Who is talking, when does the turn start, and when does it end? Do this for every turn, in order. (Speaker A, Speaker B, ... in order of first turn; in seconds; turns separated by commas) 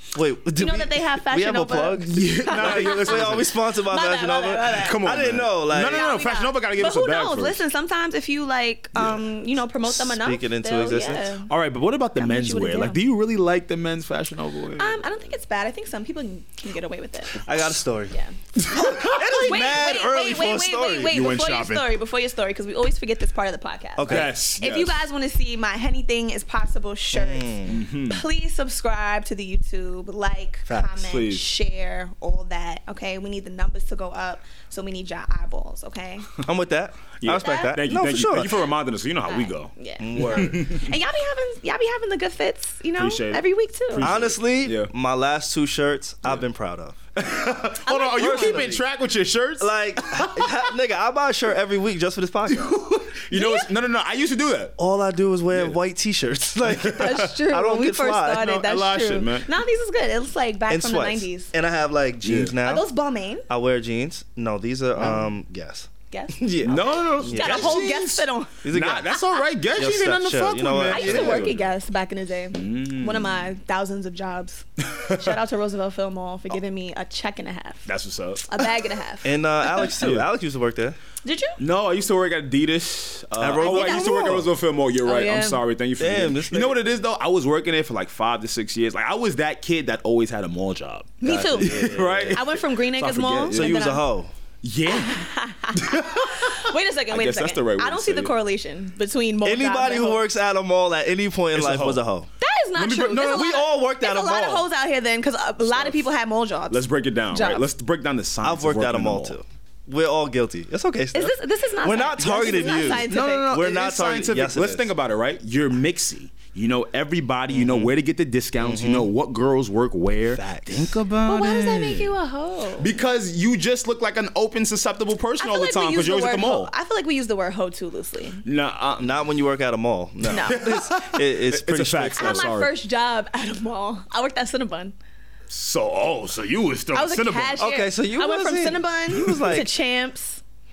Speaker A: 0.1-6.0, Speaker B: 0.6-5.2, Speaker C: 2.1-3.5, Speaker C: 4.7-7.6, Speaker B: 5.7-11.5, Speaker A: 9.9-11.3, Speaker C: 11.5-15.0, Speaker B: 12.2-13.0, Speaker B: 14.8-17.4, Speaker A: 17.4-18.1, Speaker C: 18.6-19.7, Speaker A: 18.7-21.1, Speaker B: 19.4-36.3, Speaker C: 21.1-21.9, Speaker A: 24.0-24.3, Speaker C: 24.0-25.1, Speaker A: 27.1-27.8, Speaker C: 27.7-28.2, Speaker C: 30.9-31.5, Speaker A: 36.4-38.5, Speaker C: 37.2-40.8, Speaker B: 37.4-37.7, Speaker B: 39.3-44.1, Speaker A: 40.0-40.7, Speaker C: 43.0-44.9, Speaker A: 44.0-47.0, Speaker C: 47.1-50.5, Speaker B: 47.8-48.7, Speaker A: 48.1-48.8, Speaker A: 49.6-52.8, Speaker C: 52.5-54.7, Speaker B: 53.3-53.7, Speaker A: 54.8-58.5, Speaker C: 55.5-55.8, Speaker C: 56.8-57.3, Speaker B: 56.9-61.5, Speaker C: 58.3-59.5, Speaker A: 60.7-62.8, Speaker C: 62.2-62.5, Speaker B: 62.6-63.4, Speaker A: 63.5-67.8, Speaker C: 65.0-65.3, Speaker B: 66.1-68.6, Speaker C: 66.6-71.7, Speaker A: 68.6-69.1, Speaker A: 69.8-71.6, Speaker B: 70.9-77.9, Speaker C: 72.5-73.5, Speaker C: 74.8-75.4, Speaker C: 77.8-78.7, Speaker B: 78.5-80.0, Speaker A: 79.2-81.0, Speaker C: 79.8-80.3, Speaker B: 81.2-81.6, Speaker C: 81.6-93.9, Speaker A: 83.4-84.4, Speaker B: 83.6-84.5, Speaker B: 85.0-85.6, Speaker A: 86.0-86.8, Speaker B: 91.2-94.1, Speaker A: 91.4-92.4, Speaker A: 93.5-94.3, Speaker C: 94.6-98.3, Speaker B: 94.9-100.2, Speaker A: 99.4-102.3, Speaker C: 101.5-102.0, Speaker B: 102.4-107.7, Speaker C: 102.7-103.5, Speaker A: 103.1-104.6, Speaker C: 105.6-106.0, Speaker C: 106.7-109.4, Speaker A: 108.4-114.9, Speaker B: 111.1-113.5, Speaker C: 112.8-122.1, Speaker A: 117.5-117.9, Speaker A: 118.6-119.1, Speaker A: 120.3-120.9, Speaker B: 121.2-123.0, Speaker C: 122.8-126.7, Speaker B: 125.4-128.4, Speaker C: 128.4-129.2, Speaker A: 129.0-132.4, Speaker C: 130.2-132.7, Speaker B: 130.3-130.6, Speaker B: 132.2-134.9, Speaker C: 135.5-137.6, Speaker B: 136.9-140.4, Speaker A: 137.6-139.7